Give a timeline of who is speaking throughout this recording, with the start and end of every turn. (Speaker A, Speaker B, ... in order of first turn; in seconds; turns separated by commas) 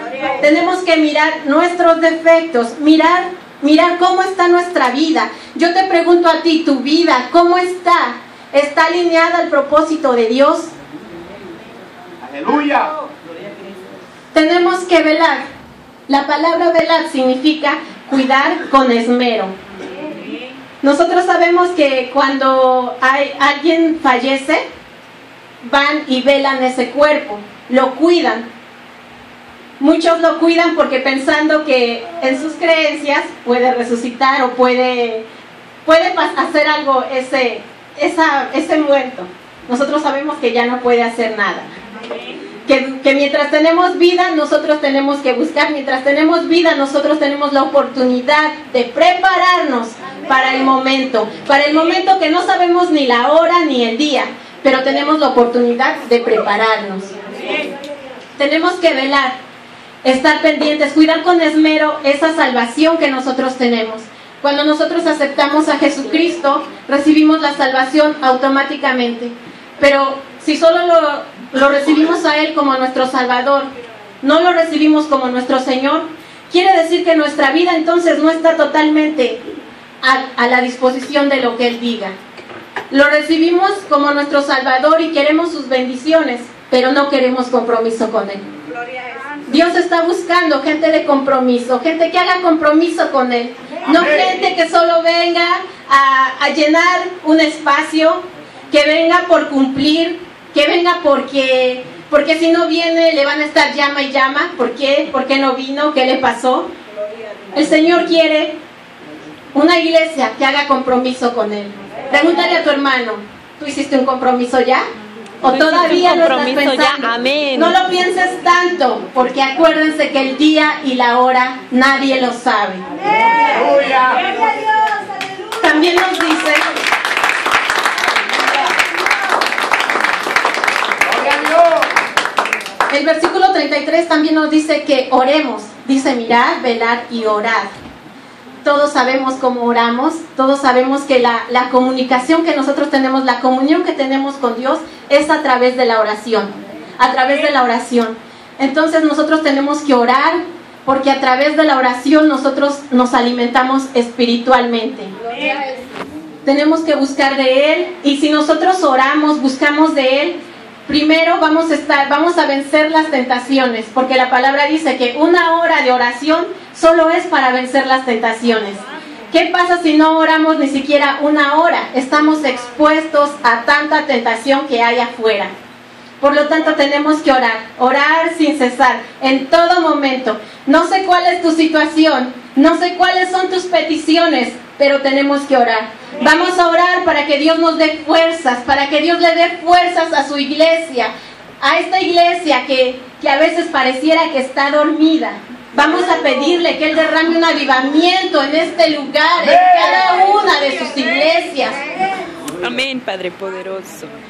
Speaker A: 0.4-10.7, Speaker B: 12.2-12.9, Speaker A: 14.3-15.4, Speaker A: 16.1-19.5, Speaker A: 20.8-24.6, Speaker A: 25.6-28.4, Speaker A: 29.8-35.2, Speaker A: 35.8-41.7, Speaker A: 42.6-57.1, Speaker A: 58.4-59.4, Speaker A: 60.0-73.7, Speaker A: 74.2-79.4, Speaker A: 80.0-82.1, Speaker A: 82.9-88.4, Speaker A: 89.5-106.7, Speaker A: 107.5-108.6, Speaker A: 109.5-114.8, Speaker A: 115.4-122.8, Speaker C: 115.4-117.7, Speaker B: 123.5-124.2, Speaker A: 125.6-126.6, Speaker B: 131.2-131.7, Speaker A: 132.9-137.7, Speaker A: 138.6-155.1, Speaker A: 156.4-175.5, Speaker A: 176.2-201.8, Speaker C: 202.6-204.1